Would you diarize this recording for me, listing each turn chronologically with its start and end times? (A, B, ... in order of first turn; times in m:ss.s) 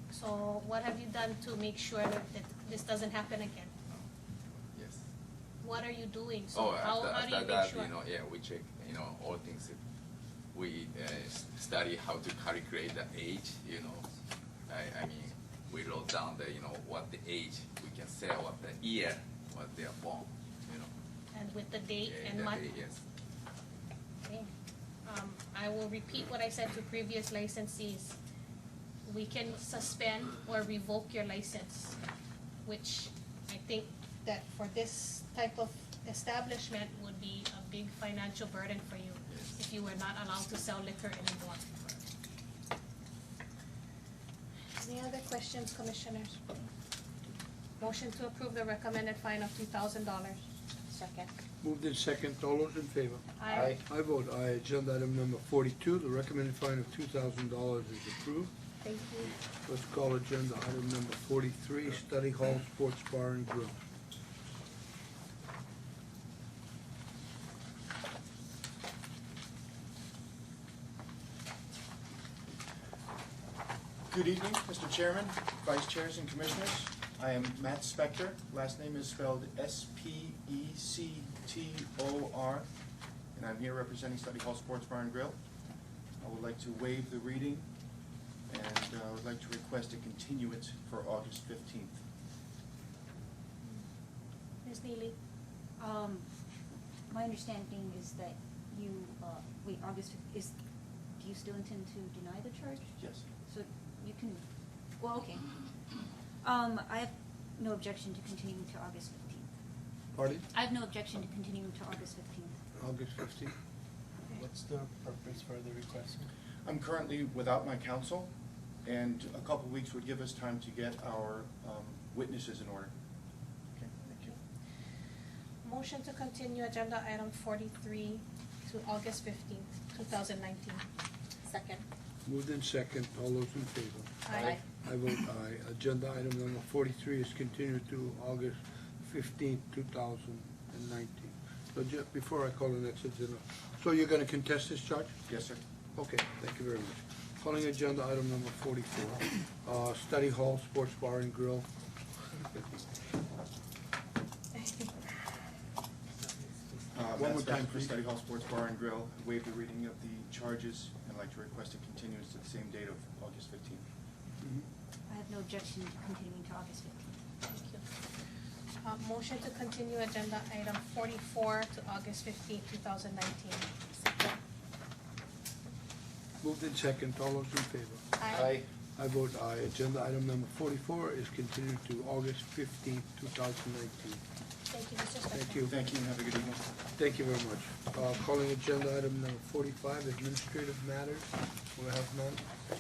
0:00.1-0:03.7 A
0:04.7-0:05.0 B
0:05.6-0:07.9 A
0:06.5-0:09.8 B
0:10.5-0:14.0 B
0:14.7-0:20.9 B
0:21.3-0:22.6 A
0:22.0-0:23.0 B
0:24.2-0:24.5 A
0:25.0-0:28.2 A
0:29.1-0:32.0 A
0:32.6-0:41.7 A
0:39.3-0:39.6 B
0:44.8-0:46.7 A
0:47.8-0:51.3 A
0:51.6-0:58.5 C
0:53.4-0:53.8 A
0:53.5-0:53.8 D
0:58.8-0:59.4 A
0:59.6-1:03.8 C
1:14.1-1:22.7 E
1:23.4-1:25.4 E
1:26.2-1:27.7 E
1:28.5-1:32.0 E
1:34.6-1:35.2 A
1:35.8-1:36.3 F
1:37.1-1:40.6 F
1:41.2-1:43.0 F
1:43.0-1:43.3 E
1:43.5-1:44.4 F
1:45.0-1:45.6 F
1:46.4-1:49.5 F
1:50.1-1:50.4 C
1:50.5-1:52.6 F
1:52.8-1:53.5 C
1:54.3-1:56.3 D
1:56.6-1:58.3 E
1:58.8-2:02.9 E
2:03.8-2:04.4 E
2:05.6-2:10.8 A
2:11.5-2:11.8 A
2:12.3-2:25.2 C
2:14.2-2:14.6 A
2:25.3-2:25.6 E
2:26.0-2:31.7 C
2:34.6-2:35.1 A
2:36.9-2:43.8 E
2:37.2-2:38.0 C
2:45.1-2:47.1 F
2:47.4-2:47.9 A
2:48.8-2:53.8 A
2:56.4-3:04.2 C
2:58.2-2:58.6 A
3:04.7-3:05.6 A
3:05.3-3:05.7 C
3:05.6-3:06.6 E
3:07.0-3:12.4 C